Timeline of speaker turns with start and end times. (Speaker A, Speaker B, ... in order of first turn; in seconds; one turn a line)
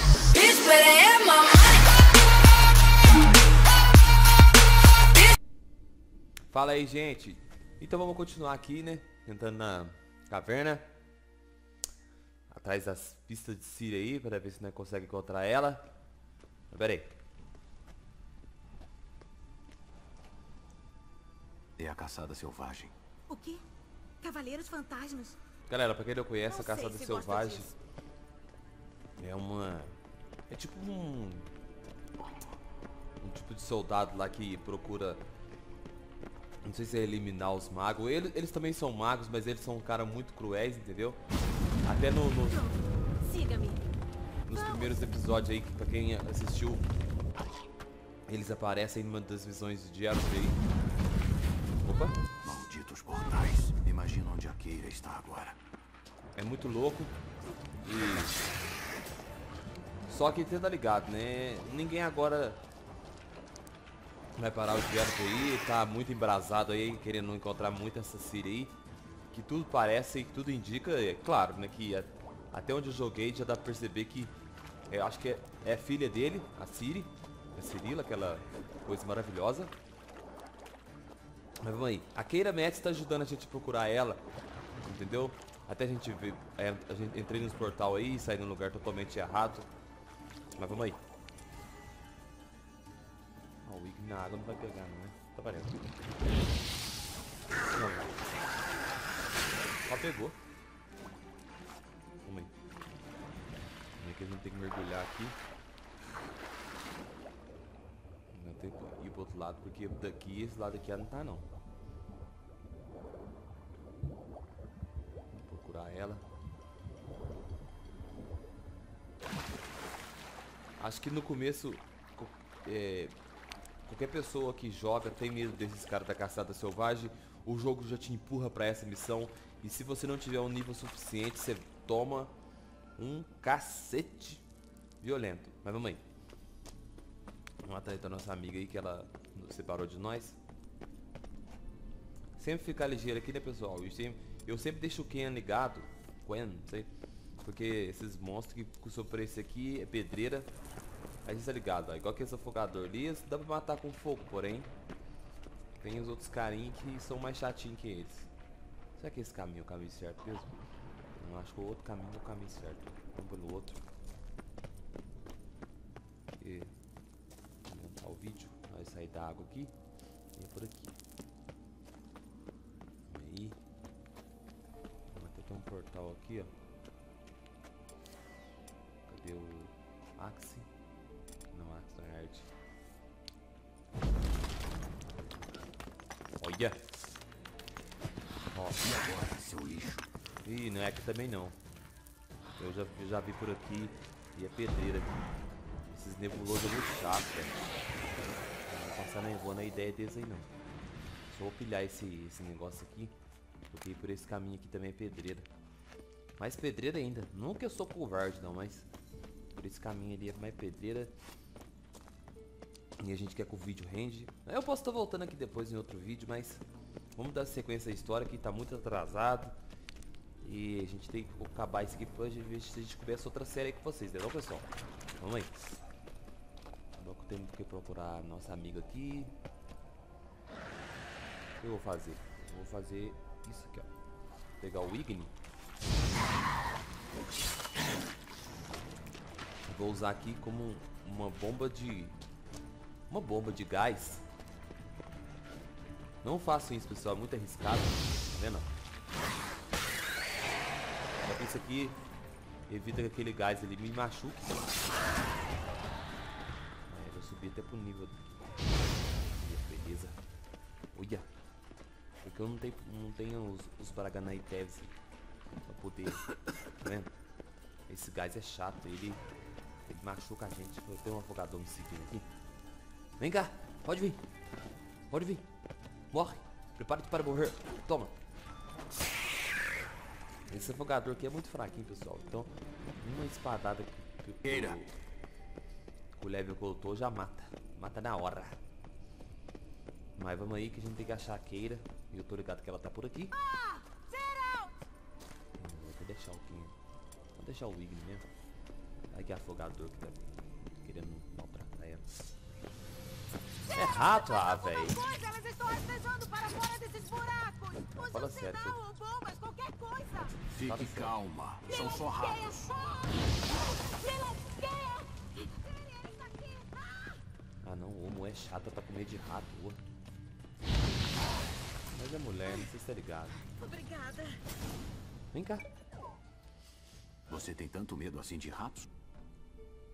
Speaker A: 0.3-1.6
Speaker B: 6.5-10.8
Speaker B: 12.5-15.9
Speaker B: 16.7-17.1
Speaker C: 21.8-22.9
Speaker A: 23.3-23.6
Speaker A: 24.2-25.4
Speaker B: 25.7-27.7
Speaker A: 26.5-27.8
Speaker B: 29.2-29.9
Speaker B: 30.5-31.5
Speaker B: 33.2-35.2
Speaker B: 36.6-41.2
Speaker B: 41.8-42.6
Speaker A: 42.5-43.8
Speaker B: 44.5-46.9
Speaker A: 44.5-44.9
Speaker B: 48.3-50.6
Speaker B: 51.8-52.2
Speaker C: 52.4-55.6
Speaker B: 56.3-57.2
Speaker B: 57.8-58.5
Speaker B: 60.1-62.6
Speaker B: 64.3-68.7
Speaker B: 69.3-74.3
Speaker B: 74.9-79.7
Speaker B: 81.6-84.2
Speaker B: 84.8-89.7
Speaker B: 90.6-91.0
Speaker B: 93.6-95.8
Speaker B: 97.7-98.2
Speaker B: 99.8-100.4
Speaker B: 102.2-102.5
Speaker B: 104.0-105.4
Speaker B: 108.3-111.5
Speaker B: 115.3-116.2
Speaker B: 120.8-123.1
Speaker B: 123.8-132.3
Speaker B: 132.9-134.4
Speaker B: 135.0-136.0
Speaker B: 137.6-140.4
Speaker B: 142.4-146.9
Speaker B: 147.4-150.5
Speaker B: 151.2-154.7
Speaker B: 155.8-158.3
Speaker B: 158.9-160.5
Speaker B: 161.2-163.8
Speaker B: 166.4-166.7
Speaker B: 167.7-169.7
Speaker B: 170.3-170.9
Speaker B: 173.1-173.6
Speaker B: 175.1-176.5
Speaker B: 179.1-180.7
Speaker B: 181.5-182.5
Speaker B: 186.4-186.8
Speaker B: 188.5-188.8
Speaker C: 188.8-190.1
Speaker B: 190.4-191.6
Speaker B: 192.6-195.2
Speaker B: 195.9-197.7
Speaker B: 198.6-200.5
Speaker B: 201.3-203.1
Speaker B: 203.7-205.5
Speaker B: 206.4-208.9
Speaker B: 209.5-211.1
Speaker B: 213.0-216.6
Speaker B: 217.2-219.5
Speaker B: 220.4-225.5
Speaker B: 226.9-229.3
Speaker B: 231.6-233.9
Speaker B: 234.6-235.3
Speaker B: 239.7-242.2
Speaker B: 243.1-244.2
Speaker B: 246.2-248.7
Speaker B: 251.2-252.0
Speaker B: 252.7-254.7
Speaker B: 256.9-258.3
Speaker B: 259.1-260.2
Speaker B: 260.9-261.2
Speaker B: 262.2-264.9
Speaker B: 265.7-266.3
Speaker B: 266.8-267.1
Speaker B: 267.9-269.2
Speaker B: 269.9-272.2
Speaker B: 273.2-274.2
Speaker B: 275.1-275.4
Speaker B: 276.1-278.1
Speaker B: 280.5-284.9
Speaker C: 284.4-284.8
Speaker B: 286.1-288.6
Speaker B: 290.2-293.4
Speaker A: 293.4-294.9
Speaker B: 295.6-296.7
Speaker B: 297.4-298.2
Speaker B: 299.1-300.2
Speaker B: 300.8-302.0
Speaker B: 303.7-305.0
Speaker A: 303.8-310.4
Speaker B: 307.9-308.8
Speaker C: 310.5-312.7
Speaker B: 310.6-311.1
Speaker A: 311.7-317.1
Speaker B: 317.6-319.9
Speaker B: 321.9-323.5
Speaker A: 323.4-324.4
Speaker B: 325.3-325.6
Speaker C: 327.3-328.9